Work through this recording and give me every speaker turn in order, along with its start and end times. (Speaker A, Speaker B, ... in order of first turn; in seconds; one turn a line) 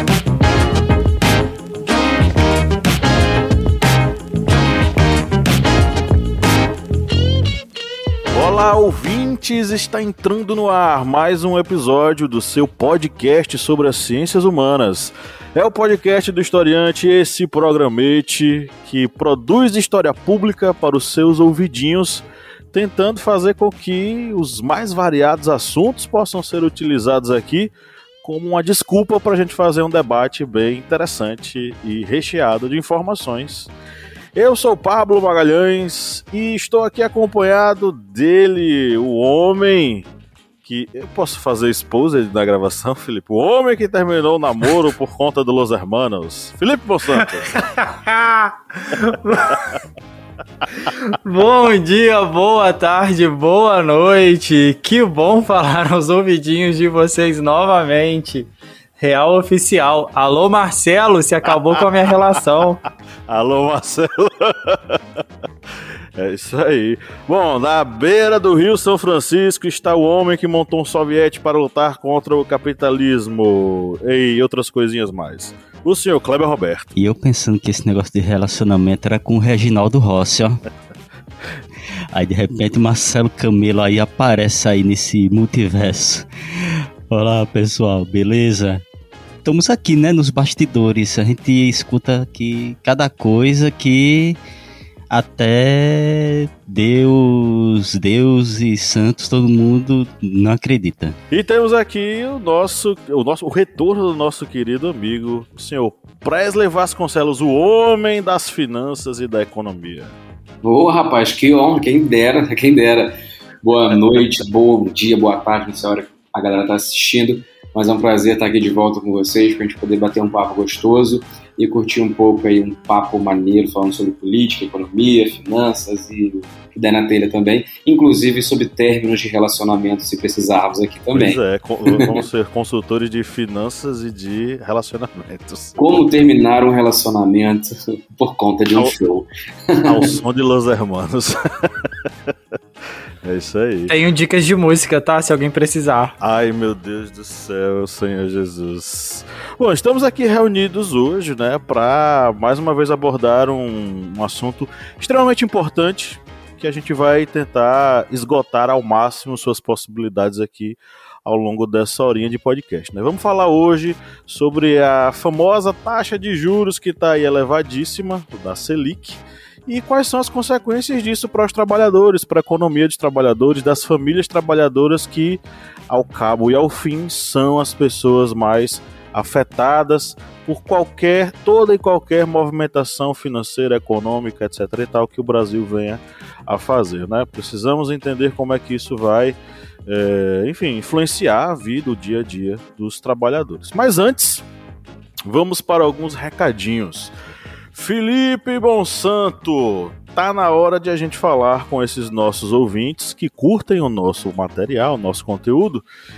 Speaker A: 8.3-27.7
Speaker A: 28.2-33.7
Speaker A: 34.4-40.1
Speaker A: 40.6-47.5
Speaker B: 47.5-49.7
Speaker B: 50.8-62.8
Speaker A: 63.3-65.2
Speaker A: 66.2-77.0
Speaker C: 77.0-80.6
Speaker C: 82.1-88.8
Speaker C: 89.4-94.4
Speaker C: 95.1-101.2
Speaker A: 101.3-110.2
Speaker D: 110.6-132.2
Speaker A: 131.1-135.8
Speaker D: 135.8-140.2
Speaker A: 139.8-142.3
Speaker A: 143.2-144.0
Speaker B: 143.9-146.2
Speaker A: 146.2-194.5
Speaker A: 195.3-197.1
Speaker A: 197.7-205.9